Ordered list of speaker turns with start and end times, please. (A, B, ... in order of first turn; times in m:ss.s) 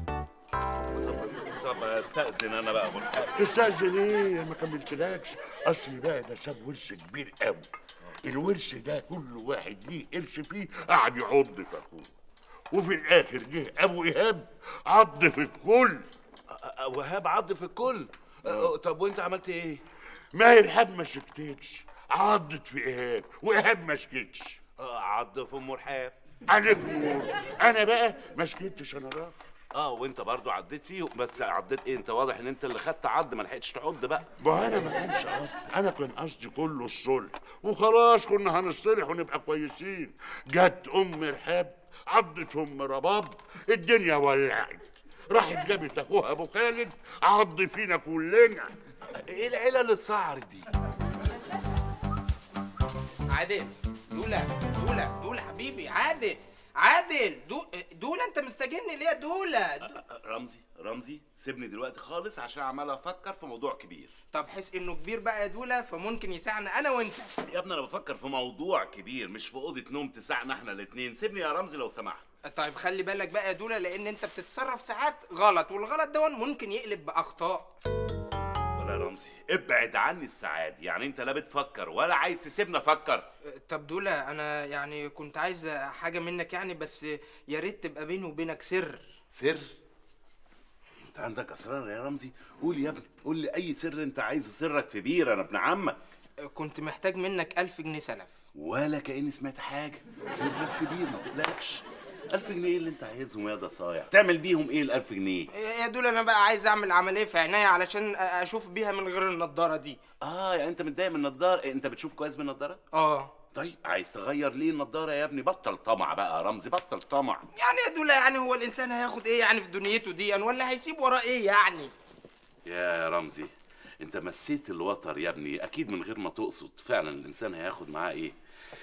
0:00.9-0:03.5 A
0:03.4-0:07.7 B
0:08.2-0:12.1 B
0:12.7-0:16.1 B
0:16.5-0:19.8 A
0:20.3-0:24.6 B
0:24.8-0:26.2 A
0:26.5-0:29.4 B
0:29.7-0:34.3 A
0:34.4-0:48.7 B
0:49.3-0:50.7 A
0:53.3-1:00.0 C
0:59.9-1:04.1 A
1:04.3-1:07.3 C
1:07.5-1:12.3 A
1:12.5-1:17.7 C
1:18.8-1:23.3 A
1:23.5-1:29.1 C
1:29.3-1:29.7 A
1:31.0-1:36.0 A
1:36.5-1:38.4 C
1:38.6-1:45.5 A
1:45.5-1:50.0 C
1:50.2-1:52.8 A
1:52.9-1:53.3 C
1:53.5-1:57.5 A
1:57.6-2:01.9 C
2:02.7-2:08.4 A